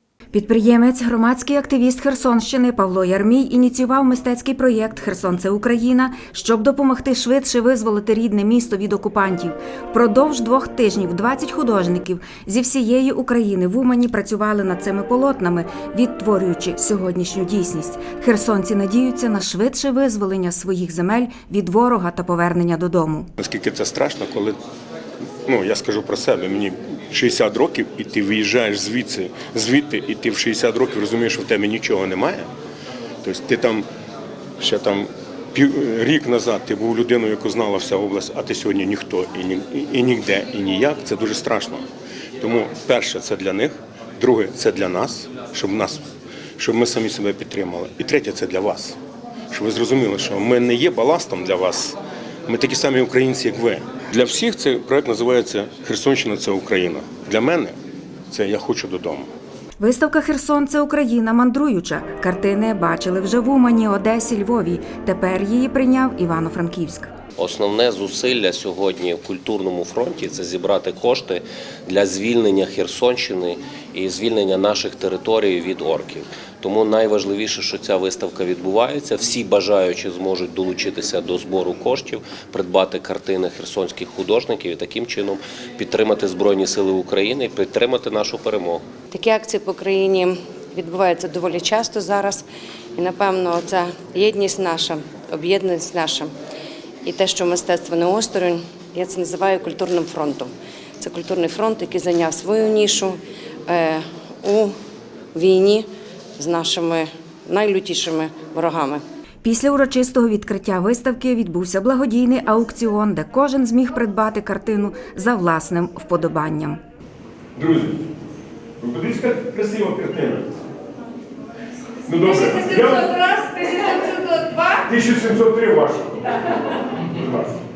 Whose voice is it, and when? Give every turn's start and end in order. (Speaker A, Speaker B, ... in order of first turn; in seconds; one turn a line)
Speaker A: 0.3-23.3
Speaker B: 23.4-24.6
Speaker B: 25.5-32.5
Speaker B: 33.2-33.9
Speaker B: 34.6-41.8
Speaker B: 42.4-46.0
Speaker B: 46.6-49.0
Speaker B: 49.5-57.7
Speaker B: 58.3-59.3
Speaker A: 59.8-67.1
Speaker C: 67.4-88.8
Speaker D: 89.1-92.5
Speaker D: 93.0-96.3
Speaker D: 97.0-104.7
Speaker D: 105.3-109.0
Speaker A: 109.4-116.8
Speaker B: 117.6-118.0
Speaker B: 118.8-120.5
Speaker B: 122.1-123.1
Speaker D: 122.2-124.9
Speaker B: 124.9-126.4
Speaker B: 127.0-127.6